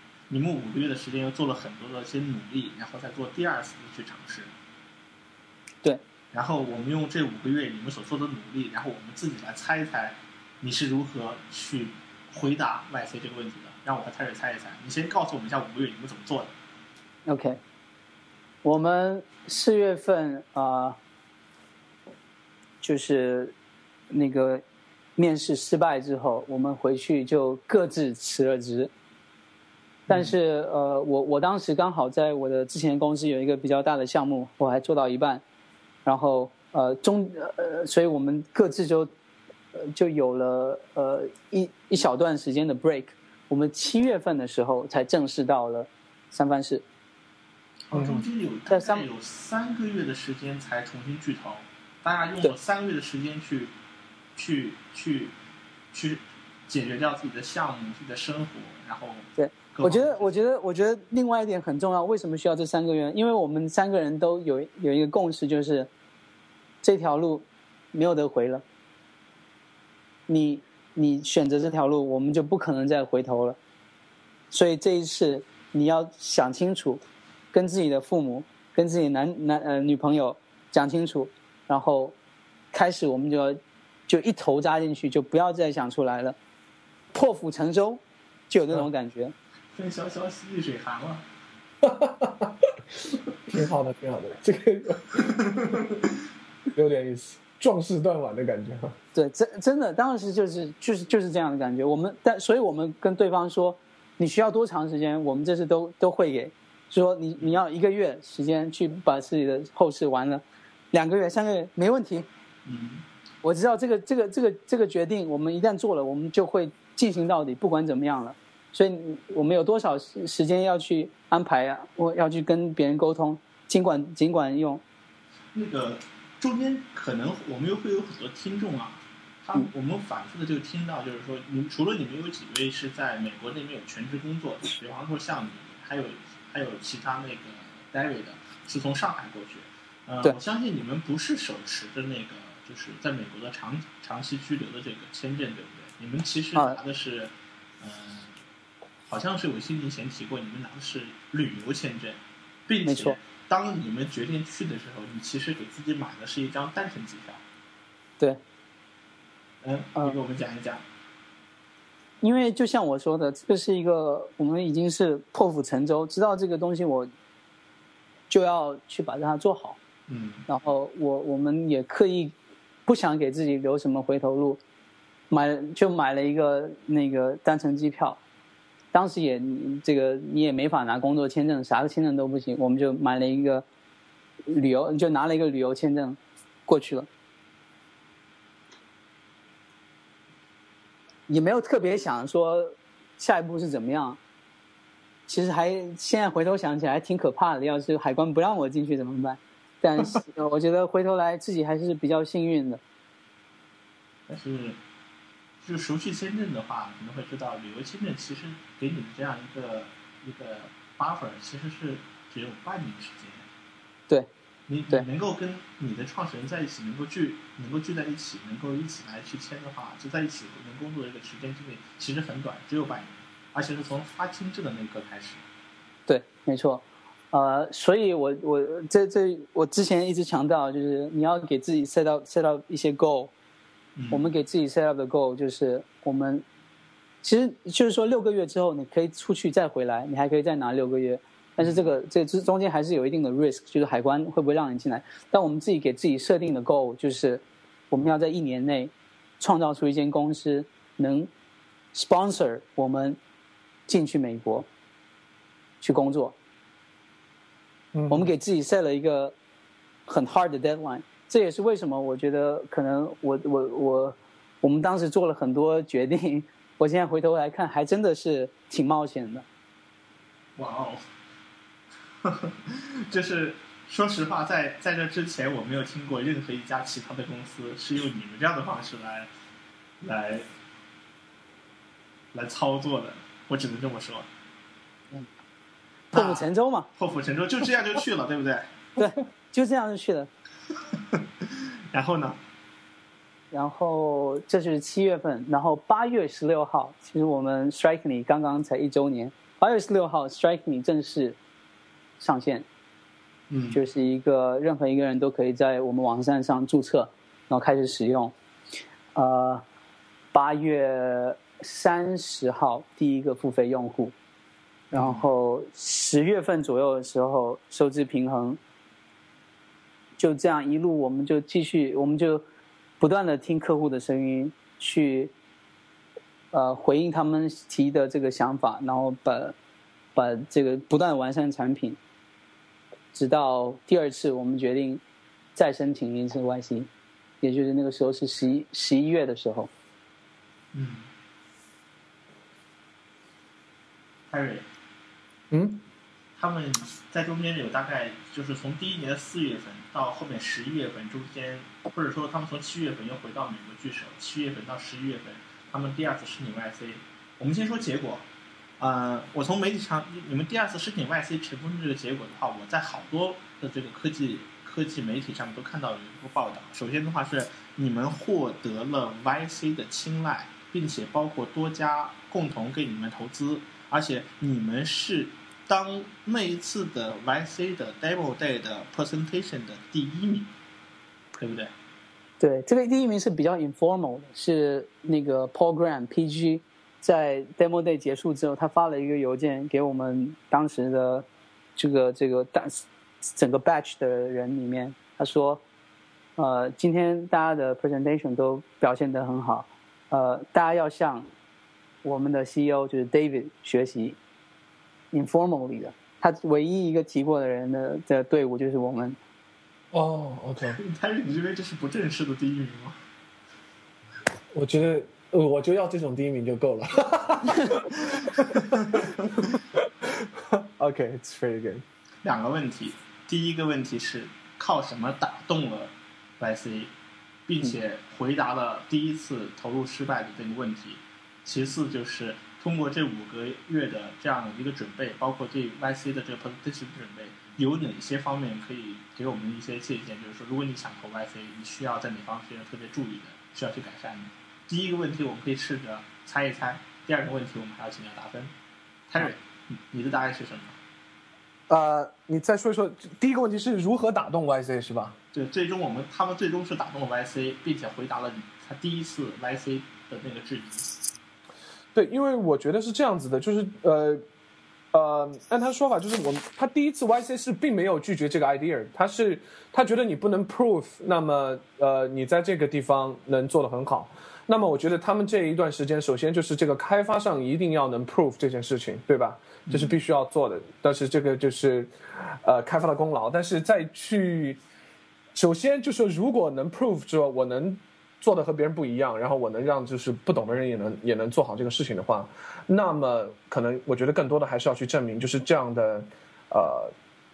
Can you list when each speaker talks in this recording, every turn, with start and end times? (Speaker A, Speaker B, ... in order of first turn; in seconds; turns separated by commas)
Speaker A: 0.3-4.5, Speaker A: 6.3-16.5, Speaker B: 17.2-17.6, Speaker B: 18.6-21.0, Speaker B: 22.8-23.5, Speaker B: 24.1-24.6, Speaker B: 25.2-28.9, Speaker A: 30.1-30.3, Speaker B: 30.1-35.4, Speaker B: 36.0-39.1, Speaker B: 39.7-46.8, Speaker A: 47.9-53.7, Speaker C: 47.9-48.2, Speaker B: 48.7-49.0, Speaker A: 54.3-55.3, Speaker A: 55.9-60.3, Speaker B: 59.4-65.9, Speaker B: 66.8-68.6, Speaker B: 70.3-73.6, Speaker B: 74.5-77.0, Speaker B: 77.5-82.1, Speaker B: 82.7-86.4, Speaker B: 87.1-89.3, Speaker A: 89.7-91.2, Speaker C: 91.8-95.8, Speaker A: 95.2-96.1, Speaker C: 96.7-98.9, Speaker B: 99.1-112.3, Speaker A: 112.7-113.0, Speaker B: 113.4-124.8, Speaker A: 125.5-148.3, Speaker A: 149.1-157.4, Speaker B: 152.8-153.2, Speaker A: 159.6-160.8, Speaker B: 162.2-167.1, Speaker B: 168.3-169.8, Speaker A: 170.1-170.4, Speaker B: 170.5-172.3, Speaker B: 172.9-174.6, Speaker B: 175.3-178.2, Speaker B: 178.9-183.6, Speaker B: 184.5-187.1, Speaker B: 191.3-194.2, Speaker B: 195.3-202.8, Speaker A: 204.3-204.8, Speaker A: 205.6-213.4, Speaker A: 214.7-225.4, Speaker B: 226.1-233.3, Speaker A: 233.9-234.3, Speaker B: 234.1-236.4, Speaker B: 237.2-251.3, Speaker A: 241.6-241.9, Speaker B: 251.9-253.2, Speaker B: 253.9-254.7, Speaker B: 255.8-256.3, Speaker C: 257.9-258.3, Speaker B: 258.1-259.3, Speaker B: 260.1-269.4, Speaker A: 270.6-271.0, Speaker A: 272.2-279.3, Speaker A: 280.0-280.5, Speaker A: 282.3-284.3, Speaker A: 286.1-286.4, Speaker B: 286.1-286.9, Speaker A: 287.0-288.7, Speaker B: 289.0-290.3, Speaker A: 290.9-292.4, Speaker B: 293.5-301.4, Speaker B: 302.2-302.6, Speaker A: 303.5-303.8, Speaker B: 303.7-308.3, Speaker B: 309.1-309.6, Speaker B: 310.3-314.1, Speaker A: 314.9-315.2, Speaker B: 314.9-318.6, Speaker B: 320.2-322.4, Speaker B: 323.0-325.3, Speaker B: 326.5-329.5, Speaker B: 330.1-332.0, Speaker B: 333.1-335.0, Speaker B: 335.6-336.9, Speaker B: 337.4-339.7, Speaker A: 340.7-341.1, Speaker A: 344.3-344.6, Speaker C: 345.5-345.8, Speaker A: 346.4-358.2, Speaker A: 358.8-380.5, Speaker A: 381.3-381.7, Speaker B: 382.4-395.6, Speaker B: 396.4-401.3, Speaker B: 402.0-404.2, Speaker B: 405.1-409.2, Speaker C: 409.9-410.8, Speaker A: 410.6-413.0, Speaker C: 414.5-421.8, Speaker A: 418.9-419.5, Speaker A: 422.2-426.9, Speaker A: 427.5-448.5, Speaker A: 449.1-450.8, Speaker C: 451.7-455.2, Speaker A: 455.3-460.9, Speaker C: 461.9-464.2, Speaker C: 464.9-484.6, Speaker A: 479.7-479.9, Speaker C: 485.3-496.9